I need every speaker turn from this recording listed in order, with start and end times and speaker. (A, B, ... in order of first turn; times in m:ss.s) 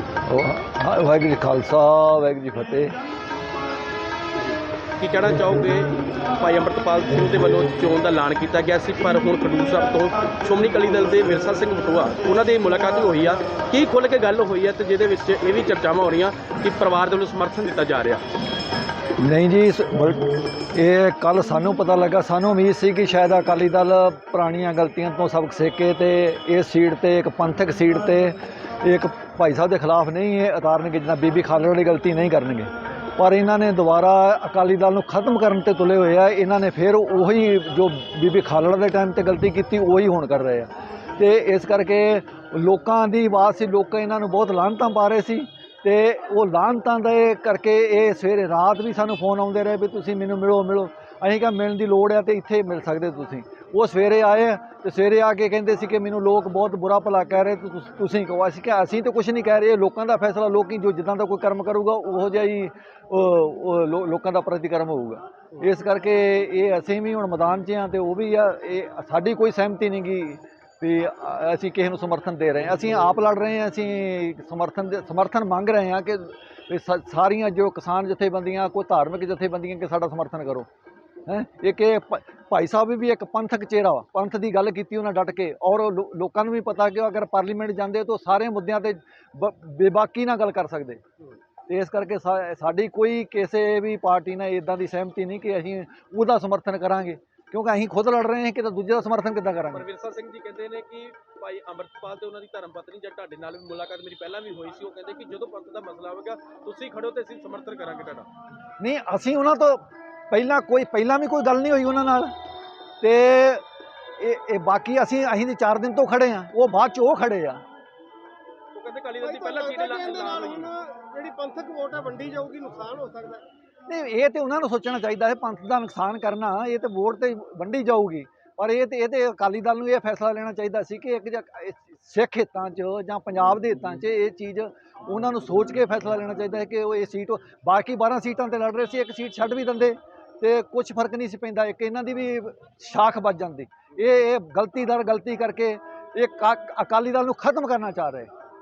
0:00.3-0:03.0 A
0:04.4-0:18.2 B
0:19.2-1:20.7 A
1:21.3-1:31.0 A
1:31.7-1:39.9 A
1:39.7-1:48.3 B
1:48.8-1:52.4 A
1:53.0-1:53.6 A
1:54.2-1:57.6 A
1:58.8-2:00.7 B
1:59.2-2:03.4 C
2:03.9-2:28.3 A